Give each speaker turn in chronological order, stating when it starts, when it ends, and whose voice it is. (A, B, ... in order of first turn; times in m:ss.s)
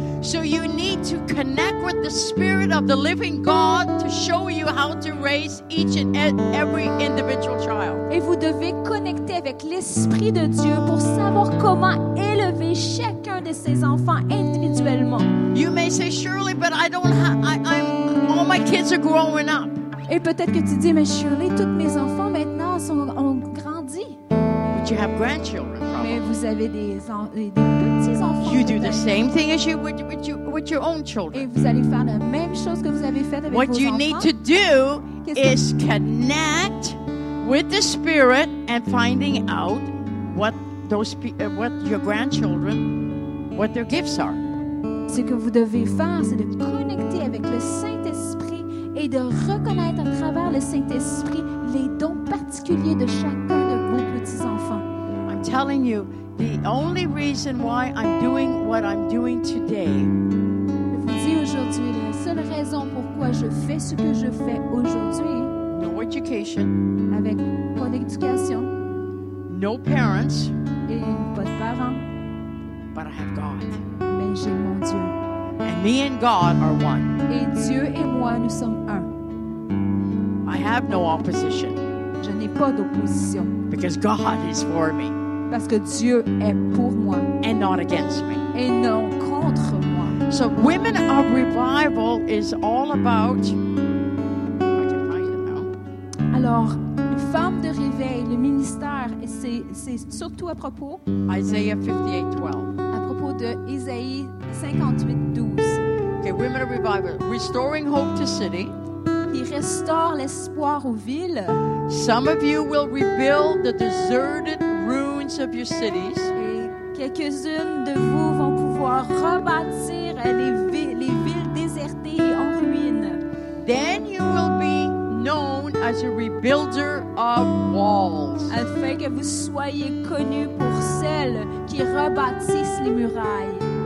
0:00.2-0:08.0 A
0:08.1-0:15.3 B
0:15.5-0:19.8 A
0:20.1-0:24.2 B
0:24.7-0:26.3 A
0:26.0-0:29.1 B
0:28.4-0:31.5 A
0:31.3-0:34.3 B
0:33.5-0:42.9 A
0:35.2-0:35.6 B
0:43.5-0:44.4 A
0:45.1-0:54.8 B
0:55.3-1:00.1 A
1:00.9-1:05.5 B
1:05.7-1:06.7 A
1:07.1-1:08.7 B
1:09.5-1:10.5 A
1:10.9-1:12.0 B
1:12.9-1:13.8 A
1:14.1-1:15.1 B
1:15.6-1:17.1 A
1:17.3-1:19.1 B
1:20.4-1:21.8 A
1:22.2-1:23.5 B
1:23.7-1:25.2 A
1:25.5-1:27.3 B
1:27.4-1:28.4 A
1:28.5-1:30.2 B
1:30.3-1:33.6 A
1:34.8-1:35.7 A
1:36.3-1:41.0 B
1:41.3-1:42.7 A
1:42.9-1:45.8 B
1:46.2-1:48.7 A
1:49.3-1:51.6 B
1:51.9-1:56.3 A
1:56.4-2:03.2 B
2:03.6-2:08.6 A
2:08.5-2:13.7 B